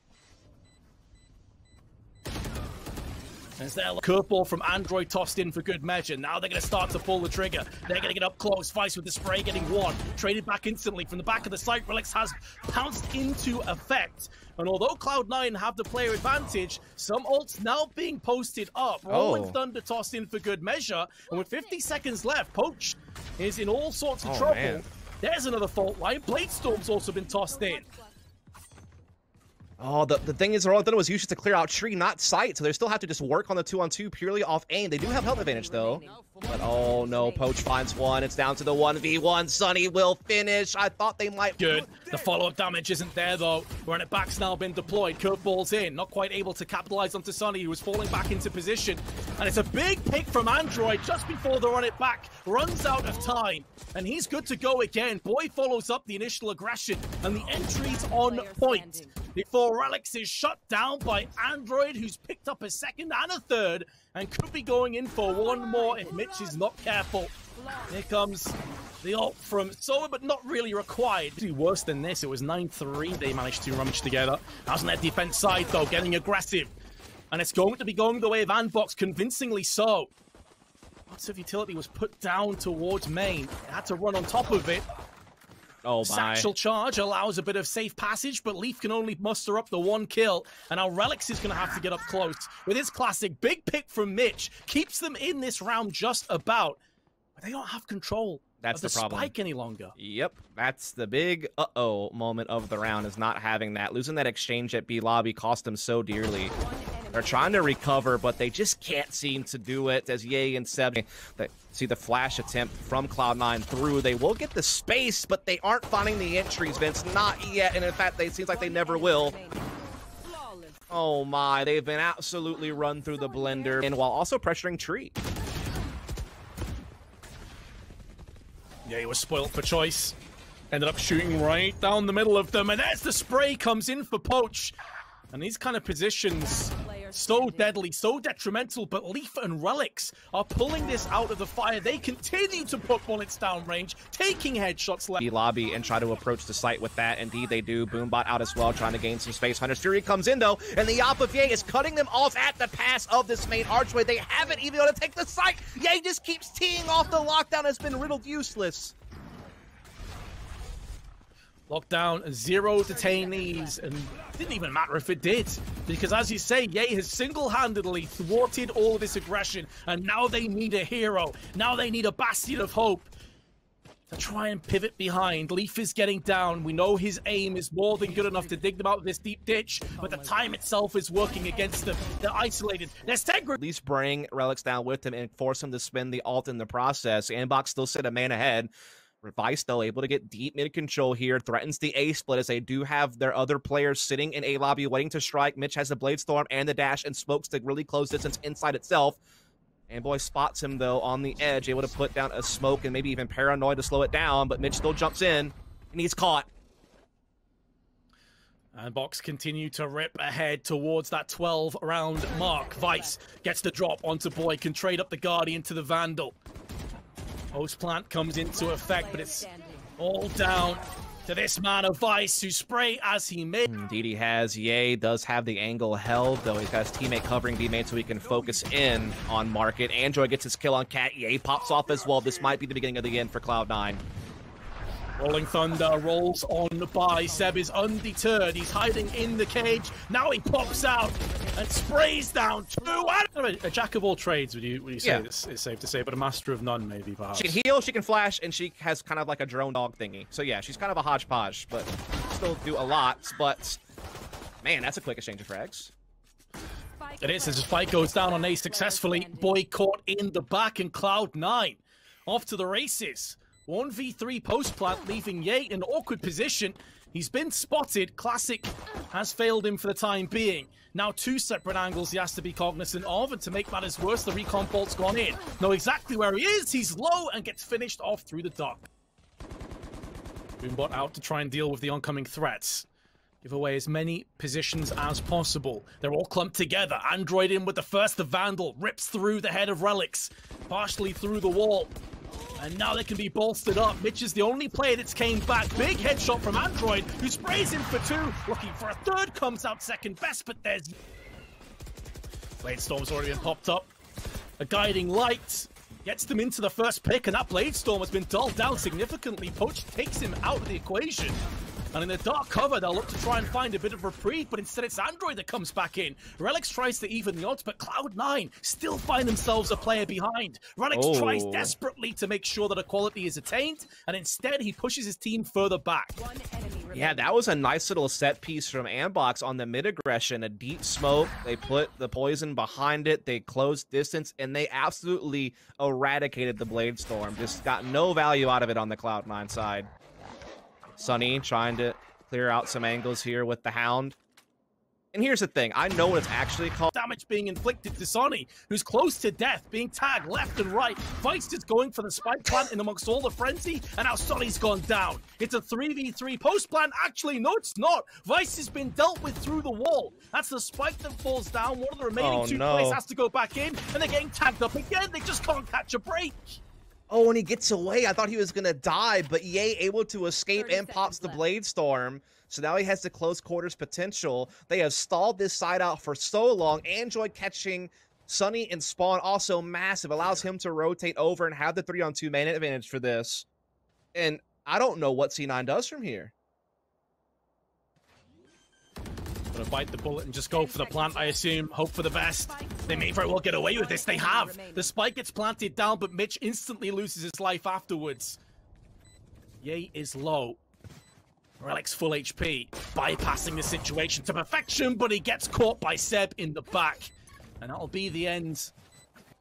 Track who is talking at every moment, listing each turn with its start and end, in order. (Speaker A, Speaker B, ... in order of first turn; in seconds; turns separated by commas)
Speaker A: 3.6-27.9, Speaker B: 19.1-19.6, Speaker B: 24.2-24.9, Speaker C: 26.9-28.1, Speaker B: 29.8-41.7, Speaker C: 35.0-37.6, Speaker A: 41.6-67.4, Speaker C: 57.6-59.1, Speaker C: 65.5-66.3, Speaker C: 67.5-67.9, Speaker A: 67.9-76.7, Speaker A: 77.3-80.1, Speaker A: 81.1-84.9, Speaker B: 85.8-86.5, Speaker A: 86.0-96.8, Speaker A: 97.4-99.9, Speaker B: 98.6-99.3, Speaker B: 100.0-106.5, Speaker C: 106.5-108.0, Speaker B: 107.1-119.3, Speaker C: 118.5-120.8, Speaker B: 120.9-125.1, Speaker C: 122.8-123.9, Speaker A: 128.8-130.2, Speaker A: 130.7-134.8, Speaker A: 135.3-145.2, Speaker C: 136.4-137.8, Speaker B: 145.2-158.9, Speaker A: 161.7-173.1, Speaker C: 162.9-163.8, Speaker A: 174.1-183.6, Speaker C: 181.4-182.2, Speaker B: 183.6-188.7, Speaker B: 189.2-199.2, Speaker B: 199.9-206.5, Speaker A: 208.7-216.4, Speaker C: 212.2-213.2, Speaker A: 217.5-223.7, Speaker C: 218.5-219.9, Speaker B: 223.7-234.0, Speaker A: 235.2-247.6, Speaker C: 240.5-242.1, Speaker B: 247.3-253.8, Speaker B: 254.6-255.9, Speaker C: 257.0-259.6, Speaker A: 257.2-278.9, Speaker A: 280.6-282.9, Speaker A: 283.4-291.9, Speaker A: 292.6-300.9, Speaker A: 302.6-303.9, Speaker A: 304.6-311.4, Speaker A: 311.9-326.2, Speaker B: 320.9-321.7, Speaker C: 326.2-327.4, Speaker B: 326.9-339.9, Speaker B: 341.0-344.2, Speaker B: 345.1-346.9, Speaker A: 346.9-366.6, Speaker B: 362.2-363.0, Speaker B: 367.1-383.5, Speaker C: 370.6-371.4, Speaker B: 384.1-386.3, Speaker A: 389.5-398.4, Speaker C: 390.5-391.5, Speaker C: 392.4-394.9, Speaker A: 399.6-400.6, Speaker A: 401.6-408.7